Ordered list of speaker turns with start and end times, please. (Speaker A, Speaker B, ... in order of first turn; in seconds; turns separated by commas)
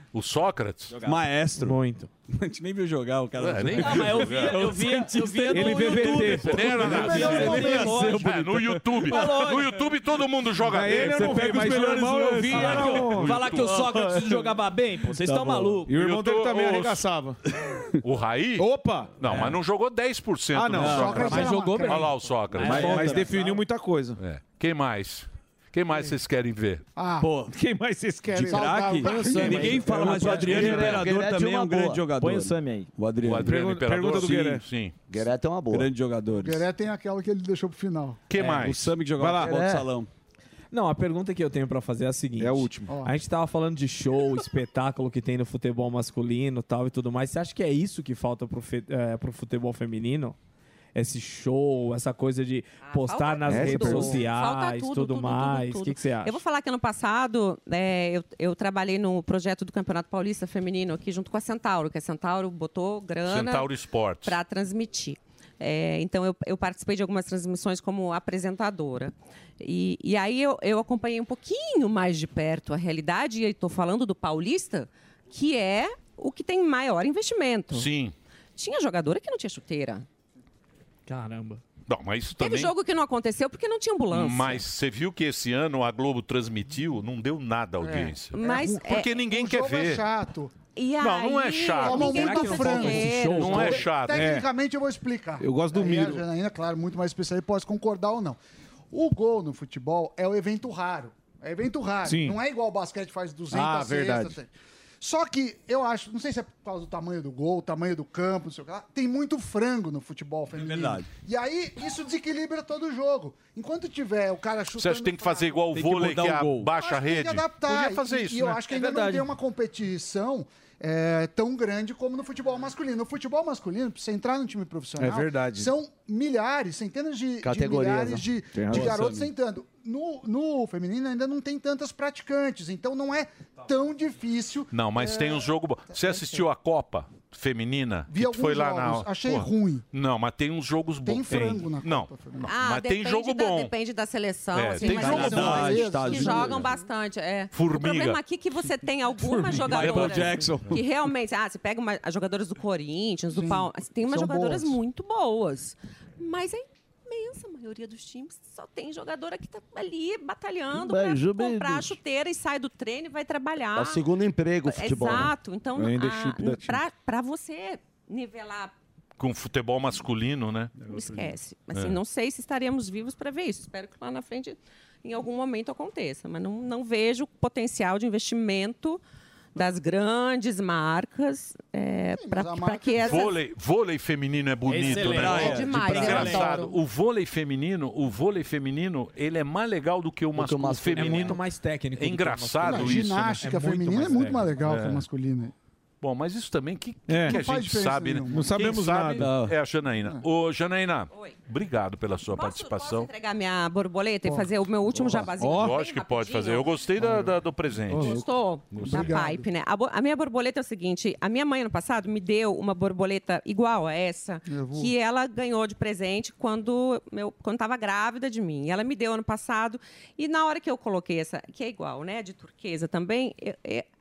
Speaker A: 0.1-0.9, Speaker B: 0.9-1.2, Speaker C: 1.0-9.3, Speaker D: 1.6-2.1, Speaker A: 3.4-4.7, Speaker B: 3.8-8.3, Speaker D: 4.5-8.2, Speaker E: 5.5-7.8, Speaker A: 6.4-11.8, Speaker B: 9.0-9.7, Speaker E: 10.6-14.5, Speaker C: 11.0-13.0, Speaker D: 11.0-13.3, Speaker B: 12.4-15.9, Speaker A: 12.5-13.9, Speaker C: 15.1-15.8, Speaker E: 15.8-17.4, Speaker A: 15.9-17.0, Speaker A: 18.0-18.7, Speaker E: 18.6-19.3, Speaker A: 19.2-23.1, Speaker C: 19.3-19.5, Speaker E: 20.5-21.3, Speaker C: 20.8-21.5, Speaker F: 20.8-22.2, Speaker B: 21.1-23.6, Speaker E: 22.6-24.2, Speaker D: 22.7-23.1, Speaker C: 22.7-23.1, Speaker A: 24.2-26.8, Speaker F: 26.9-27.4, Speaker C: 27.2-27.5, Speaker E: 27.5-29.0, Speaker F: 28.2-30.1, Speaker C: 28.3-33.6, Speaker B: 29.0-30.9, Speaker E: 30.0-31.0, Speaker G: 30.8-32.0, Speaker B: 32.2-32.9, Speaker A: 33.2-34.9, Speaker E: 33.4-34.6, Speaker G: 35.1-35.9, Speaker C: 35.7-36.6, Speaker F: 36.4-38.2, Speaker A: 38.3-39.0, Speaker C: 38.4-40.1, Speaker E: 39.1-39.6, Speaker G: 39.4-39.9, Speaker D: 40.7-50.4, Speaker E: 42.4-42.9, Speaker F: 42.9-43.2, Speaker D: 50.9-56.4, Speaker H: 52.8-77.9, Speaker C: 53.6-54.0, Speaker G: 53.7-54.2, Speaker A: 63.2-64.4, Speaker A: 77.7-78.1, Speaker H: 78.6-80.0, Speaker D: 81.1-81.6, Speaker A: 81.9-82.8, Speaker H: 82.4-84.6, Speaker A: 84.1-90.0, Speaker F: 87.8-90.5, Speaker H: 88.3-89.1, Speaker H: 90.7-93.8, Speaker A: 91.0-92.5, Speaker F: 91.8-98.4, Speaker D: 91.9-93.8, Speaker A: 93.3-94.3, Speaker E: 94.1-94.5, Speaker E: 95.4-96.2, Speaker F: 98.9-104.5, Speaker E: 102.0-102.4, Speaker E: 103.5-104.4, Speaker F: 105.0-115.7, Speaker C: 110.5-111.1, Speaker A: 114.8-118.6, Speaker C: 115.7-116.7, Speaker F: 116.7-136.2, Speaker B: 118.7-119.3, Speaker E: 125.0-125.7, Speaker G: 127.4-128.3, Speaker C: 128.7-129.3, Speaker A: 134.7-143.7, Speaker F: 138.1-139.8, Speaker F: 141.0-142.6, Speaker H: 142.4-164.0, Speaker A: 144.5-145.7, Speaker F: 144.8-146.6, Speaker C: 144.8-146.7, Speaker A: 147.5-148.2, Speaker C: 149.2-150.9, Speaker A: 149.7-150.6, Speaker F: 153.3-154.8, Speaker G: 160.7-162.0, Speaker G: 163.7-165.3, Speaker H: 164.6-168.7, Speaker E: 165.8-166.6, Speaker A: 169.2-170.8, Speaker H: 170.8-179.0, Speaker A: 171.7-172.0, Speaker H: 179.6-183.4, Speaker F: 182.2-183.4, Speaker A: 182.9-191.4, Speaker B: 184.7-185.7, Speaker C: 184.7-186.6, Speaker H: 185.2-186.8, Speaker G: 190.3-191.4, Speaker D: 190.9-194.9, Speaker A: 191.9-193.5, Speaker F: 192.6-195.5, Speaker A: 196.0-203.1, Speaker E: 197.1-197.4, Speaker F: 197.2-198.6, Speaker E: 198.3-199.3, Speaker C: 199.2-199.5, Speaker H: 201.1-201.4, Speaker H: 202.3-206.9, Speaker F: 204.2-205.1, Speaker E: 205.4-205.7, Speaker A: 205.4-208.2, Speaker F: 207.9-208.2, Speaker H: 207.9-223.8, Speaker A: 208.7-209.2, Speaker F: 208.8-209.4, Speaker F: 214.4-214.9